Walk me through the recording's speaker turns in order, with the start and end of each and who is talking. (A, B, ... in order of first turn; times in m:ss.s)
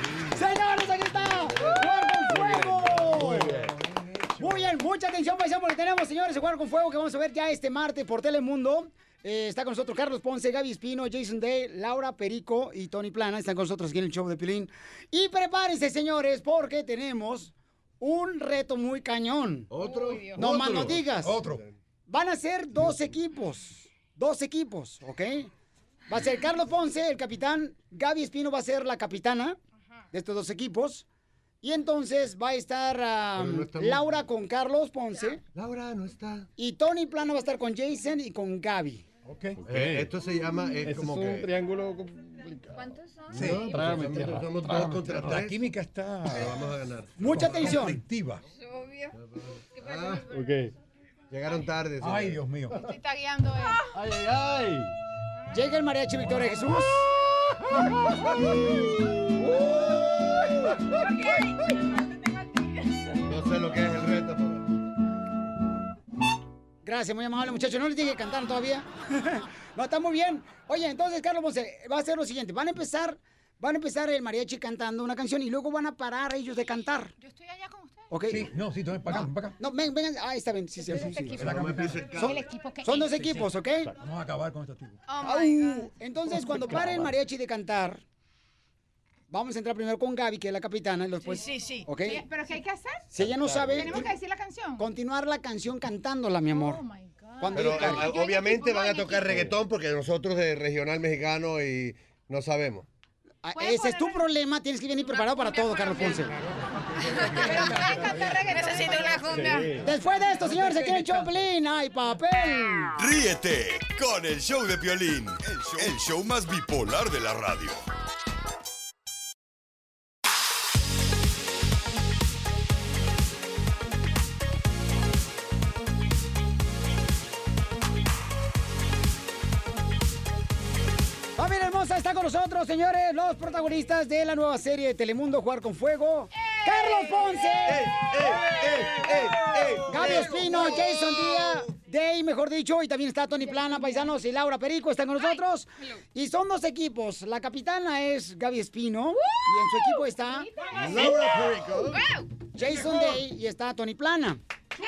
0:00.3-0:03.6 A
0:01.4-0:03.7 B
0:03.1-0:04.7 C
0:04.4-0:19.7 A
0:19.7-0:21.7 B
0:19.8-0:20.4 D
0:20.3-0:21.4 A
0:21.2-0:21.6 C
0:22.1-0:25.5 A
0:26.1-0:29.6 A
0:30.1-0:31.1 A
0:31.6-0:35.4 A
0:33.4-0:34.1 B
0:35.5-0:36.5 B
0:36.6-0:39.0 A
0:39.3-0:39.6 C
0:39.6-0:40.1 E
0:39.6-0:41.5 B
0:40.8-0:42.8 E
0:42.7-0:44.0 D
0:43.3-0:45.2 E
0:43.4-0:43.8 C
0:43.4-0:45.7 B
0:44.6-0:46.5 C
0:46.3-0:47.4 B
0:47.2-0:48.0 A
0:47.2-0:48.4 C
0:48.6-0:49.1 D
0:49.1-0:50.3 B
0:49.8-0:50.2 D
0:50.2-0:50.7 E
0:51.3-0:52.5 B
0:52.0-0:52.8 C
0:52.8-0:53.8 F
0:53.9-0:54.9 E
0:55.5-0:57.1 A
0:59.9-1:00.5 B
1:03.3-1:04.6 B
1:06.8-1:17.1 A
1:17.2-1:18.1 F
1:18.1-1:18.5 A
1:18.3-1:19.6 C
1:19.1-1:21.5 A
1:20.8-1:23.5 F
1:21.0-1:22.1 C
1:21.3-1:22.4 B
1:22.1-1:23.9 A
1:23.9-1:25.0 C
1:25.1-1:25.9 F
1:25.2-1:28.0 A
1:26.5-1:27.1 E
1:29.3-1:32.2 A
1:31.2-1:33.1 F
1:33.1-1:34.1 A
1:33.2-1:34.1 B
1:33.8-1:34.9 F
1:34.8-1:36.8 A
1:36.5-1:39.4 F
1:37.4-1:38.2 A
1:37.5-1:42.9 B
1:39.3-1:39.6 E
1:43.4-1:46.3 A
1:43.6-1:44.2 F
1:45.0-1:46.3 F
1:47.0-1:47.3 E
1:47.2-1:49.7 F
1:47.2-1:48.4 C
1:48.6-1:49.6 D
1:49.2-1:49.9 E
1:49.8-1:53.0 A
1:53.0-1:57.8 G
2:11.4-2:18.0 A
2:16.4-2:19.6 F
2:17.7-2:20.2 B
2:19.9-2:30.5 A
2:20.0-2:20.6 C
2:23.4-2:24.1 F
2:30.2-2:32.1 F
2:30.7-2:32.0 B
2:32.6-2:34.4 A